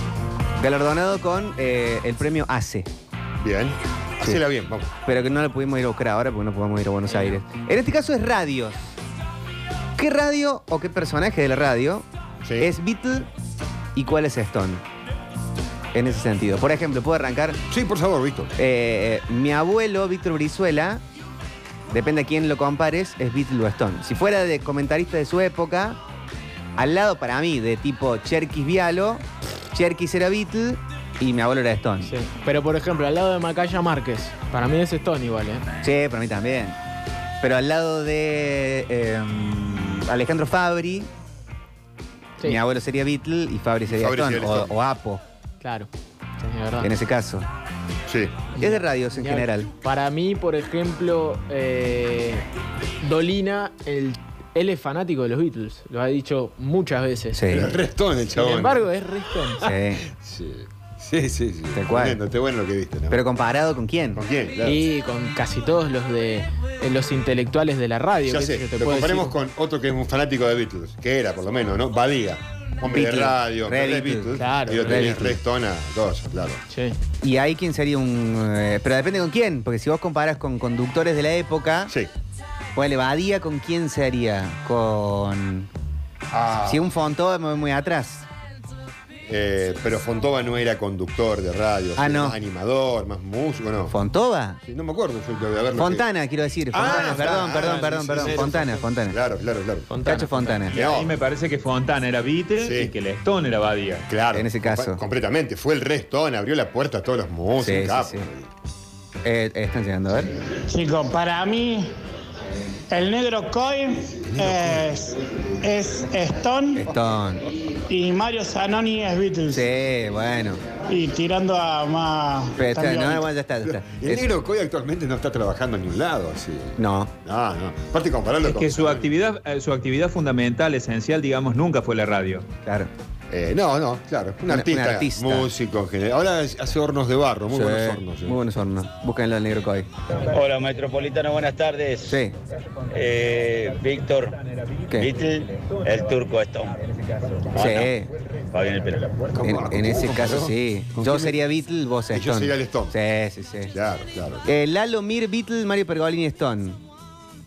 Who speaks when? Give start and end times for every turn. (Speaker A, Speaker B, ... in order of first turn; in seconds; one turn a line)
Speaker A: 0.6-2.9
Speaker B: 3.4-4.9
Speaker A: 5.0-8.9
Speaker A: 10.0-12.1
Speaker B: 12.4-12.7
Speaker A: 12.6-13.3
Speaker A: 13.9-14.8
Speaker A: 15.9-17.6
Speaker B: 17.7-18.5
Speaker A: 18.6-21.0
Speaker A: 21.9-26.0
Speaker A: 26.8-32.1
Speaker C: 32.0-35.6
Speaker A: 35.8-36.8
Speaker A: 37.4-41.1
Speaker A: 42.4-45.2
Speaker B: 43.9-44.7
Speaker C: 45.6-46.9
Speaker A: 46.8-47.5
Speaker B: 48.1-48.4
Speaker C: 48.5-52.4
Speaker A: 48.6-49.7
Speaker C: 53.0-57.5
Speaker A: 57.3-57.7
Speaker B: 57.5-58.9
Speaker C: 58.4-59.6
Speaker B: 59.6-63.2
Speaker A: 59.6-60.0
Speaker A: 61.7-62.2
Speaker A: 63.1-64.2
Speaker B: 64.1-64.8
Speaker C: 64.6-69.3
Speaker B: 68.2-76.6
Speaker A: 72.9-75.4
Speaker C: 74.3-75.1
Speaker C: 76.7-77.0
Speaker A: 77.2-81.9
Speaker A: 82.7-85.7
Speaker B: 86.3-86.9
Speaker A: 86.6-88.3
Speaker B: 89.3-93.9
Speaker A: 92.0-92.4
Speaker A: 93.9-94.6
Speaker B: 94.6-96.0
Speaker A: 95.7-99.2
Speaker B: 96.7-99.9
Speaker C: 97.5-98.4
Speaker C: 99.9-100.6
Speaker A: 100.0-100.8
Speaker B: 100.7-101.2
Speaker D: 100.7-104.0
Speaker B: 102.6-102.9
Speaker B: 104.1-108.5
Speaker A: 104.3-105.0
Speaker A: 107.6-108.3
Speaker A: 109.2-110.3
Speaker E: 110.6-111.9
Speaker E: 112.9-116.8
Speaker B: 114.1-115.0
Speaker A: 116.8-117.4
Speaker E: 117.9-119.7
Speaker A: 119.5-120.6
Speaker E: 120.9-123.3
Speaker A: 122.5-124.3
Speaker B: 123.6-129.1
Speaker A: 126.8-127.1
Speaker D: 128.4-132.5
Speaker A: 132.6-132.9
Speaker B: 133.3-138.4
Speaker A: 134.4-135.5
Speaker A: 137.5-139.9
Speaker F: 140.3-142.1
Speaker A: 142.0-142.3
Speaker F: 142.9-144.3
Speaker F: 144.9-146.8
Speaker F: 147.5-147.9
Speaker A: 147.5-148.1
Speaker F: 148.5-149.1
Speaker B: 149.3-151.3
Speaker A: 149.4-153.7
Speaker B: 152.1-152.9
Speaker B: 153.7-154.5
Speaker A: 154.4-156.8